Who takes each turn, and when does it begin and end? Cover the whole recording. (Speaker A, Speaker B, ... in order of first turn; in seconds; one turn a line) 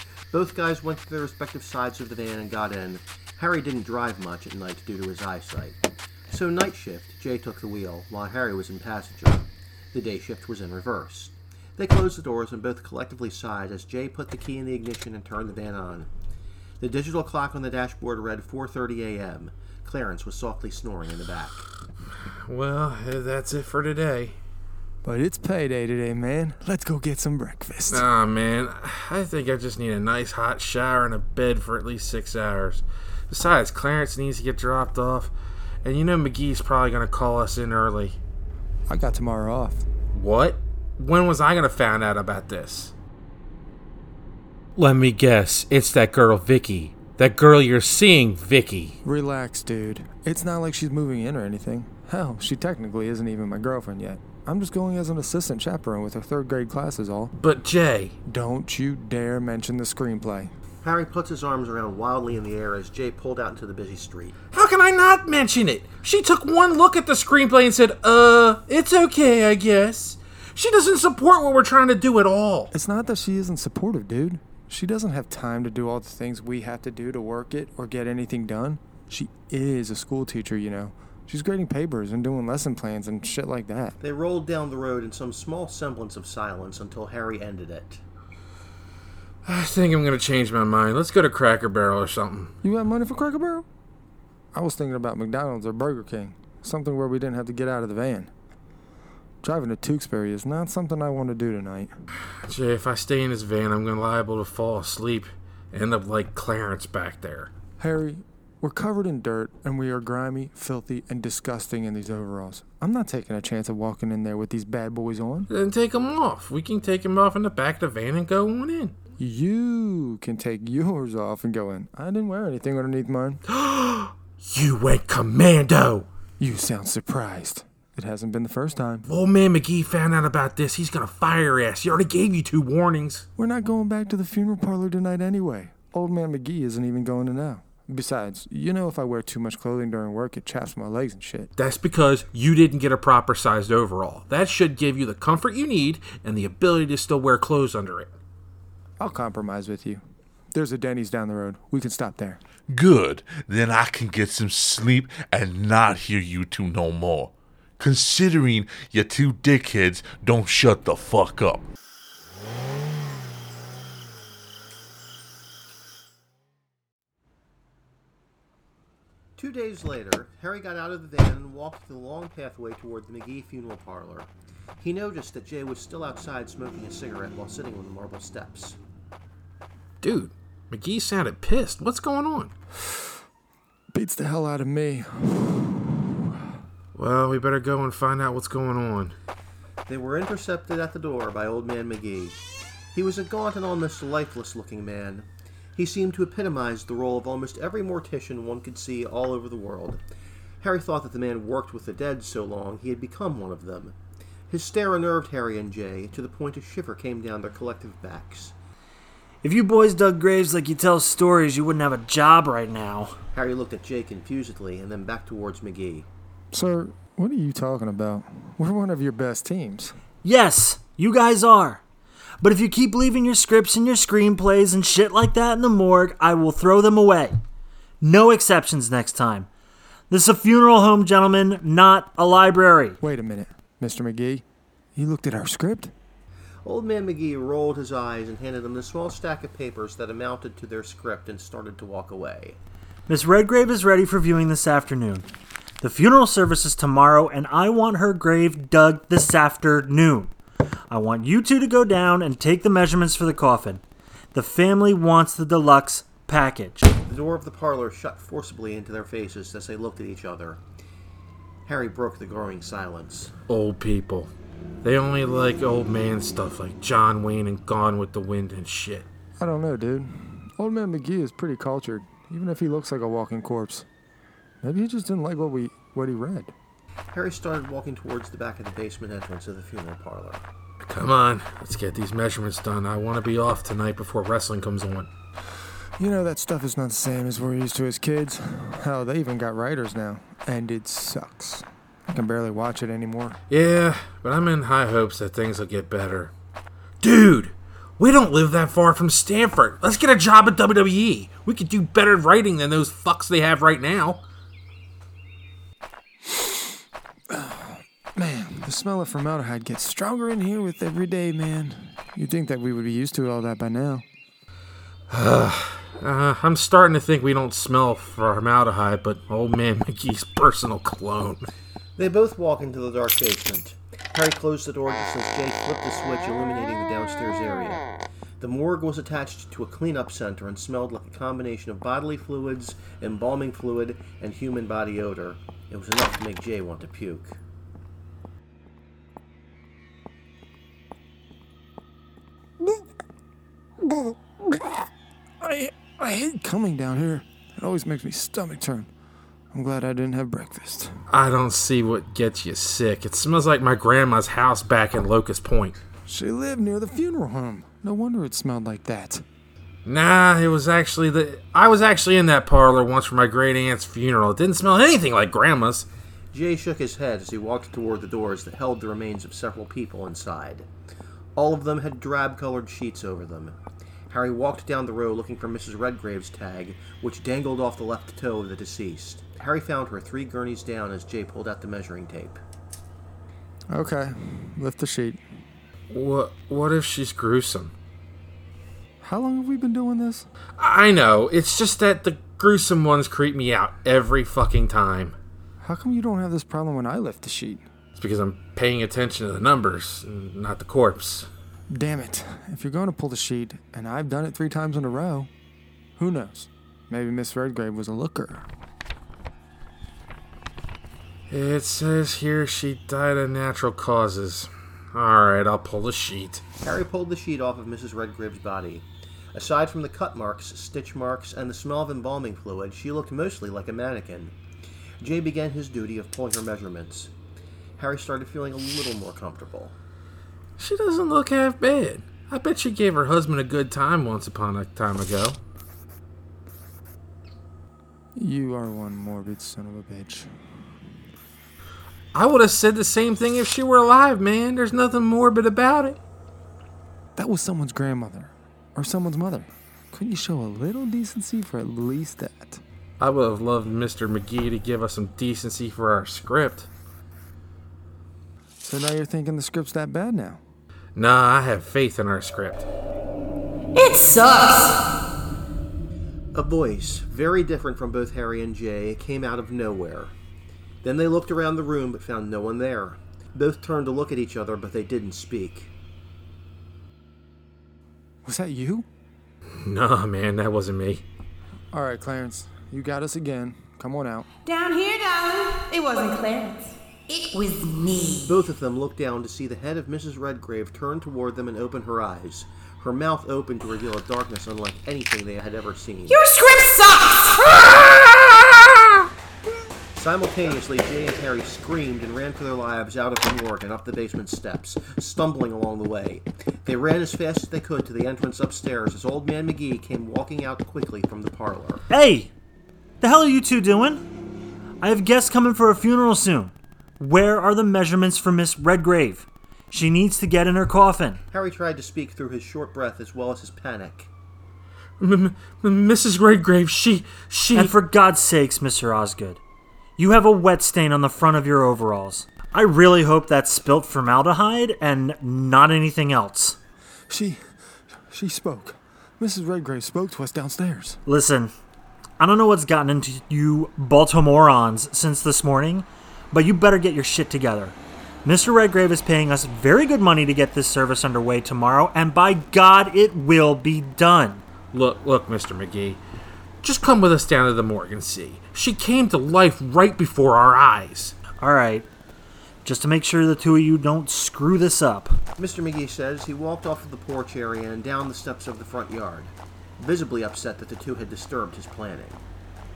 Speaker A: 0.3-16.1
Speaker A: 16.8-21.6
Speaker B: 22.2-24.4
Speaker C: 25.0-28.1
Speaker B: 27.9-35.3
Speaker B: 35.8-38.2
Speaker C: 38.9-39.8
Speaker B: 40.1-42.9
Speaker B: 44.8-49.0
Speaker C: 49.0-57.3
Speaker B: 57.3-58.1
Speaker C: 58.3-60.5
Speaker A: 60.8-64.3
Speaker B: 64.5-72.7
Speaker C: 72.7-84.0
Speaker A: 84.0-88.0
Speaker B: 89.4-92.5
Speaker C: 92.6-93.6
Speaker C: 94.5-98.3
Speaker C: 99.4-101.9
Speaker B: 102.4-107.5
Speaker C: 107.8-115.5
Speaker B: 115.5-119.0
Speaker C: 119.2-123.4
Speaker B: 123.5-126.1
Speaker C: 126.4-129.0
Speaker B: 129.0-133.2
Speaker C: 133.4-141.5
Speaker B: 141.6-148.1
Speaker C: 149.0-152.4
Speaker D: 152.7-161.7
Speaker A: 169.4-178.8
Speaker B: 180.0-182.5
Speaker C: 183.9-186.1
Speaker B: 186.9-189.1
Speaker A: 189.9-192.4
Speaker A: 192.9-200.0
Speaker A: 200.6-203.9
Speaker A: 204.5-208.5
Speaker E: 209.4-213.2
Speaker A: 213.3-216.1
Speaker C: 216.5-219.9
Speaker E: 220.2-221.8
Speaker E: 222.4-227.4
Speaker E: 228.0-229.5
Speaker E: 230.1-233.0
Speaker C: 233.0-234.4
Speaker C: 234.9-235.9
Speaker A: 236.6-242.6
Speaker E: 243.1-245.3
Speaker E: 245.8-250.3
Speaker E: 250.9-253.8
Speaker E: 254.3-256.9
Speaker A: 257.1-260.6
Speaker A: 261.6-263.3
Speaker B: 263.5-264.3
Speaker B: 264.8-269.1
Speaker C: 269.4-273.9
Speaker C: 274.6-276.5
Speaker A: 277.1-280.4
Speaker B: 280.8-285.1
Speaker C: 286.0-293.4
Speaker B: 293.5-296.3
Speaker B: 297.0-304.2
Speaker C: 307.3-314.0
Speaker B: 315.1-321.4
Speaker A: 322.0-327.9
Speaker A: 328.4-337.4
Speaker C: 343.8-344.9
Speaker C: 345.4-348.9
Speaker C: 349.5-350.9
Speaker B: 351.1-355.8
Speaker C: 356.1-359.2
Speaker B: 359.9-365.9
Speaker A: 366.3-370.7
Speaker A: 371.4-373.6
Speaker A: 374.1-382.4
Speaker C: 383.7-385.2
Speaker B: 385.9-387.7
Speaker C: 389.0-390.3
Speaker B: 390.6-395.2
Speaker C: 395.6-397.6
Speaker B: 397.9-401.3
Speaker C: 401.7-405.3
Speaker C: 406.0-408.5
Speaker B: 411.3-416.4
Speaker A: 416.6-424.3
Speaker A: 425.0-427.1
Speaker A: 427.8-429.7
Speaker B: 430.6-435.4
Speaker C: 438.2-440.3
Speaker B: 442.1-446.0
Speaker C: 447.1-452.6
Speaker B: 453.0-456.7
Speaker C: 458.6-460.4
Speaker B: 460.9-462.7
Speaker F: 463.8-464.8
Speaker A: 466.3-470.1
Speaker A: 470.8-475.7
Speaker C: 478.2-478.9
Speaker B: 479.6-481.0
Speaker C: 481.7-484.2
Speaker F: 484.4-488.2
Speaker A: 488.2-496.2
Speaker F: 496.1-498.4
Speaker A: 499.9-511.8
Speaker E: 511.9-512.3
Speaker E: 513.0-514.0
Speaker E: 514.8-521.2
Speaker A: 521.3-524.1
Speaker B: 525.0-527.8
Speaker E: 527.5-529.4
Speaker E: 530.0-536.6
Speaker C: 537.1-537.4
Speaker C: 538.1-541.0
Speaker E: 541.0-541.5
Speaker E: 542.2-554.4
Speaker B: 554.7-556.0
Speaker B: 556.6-561.2
Speaker E: 561.4-561.9
Speaker E: 562.6-565.2
Speaker A: 565.4-572.2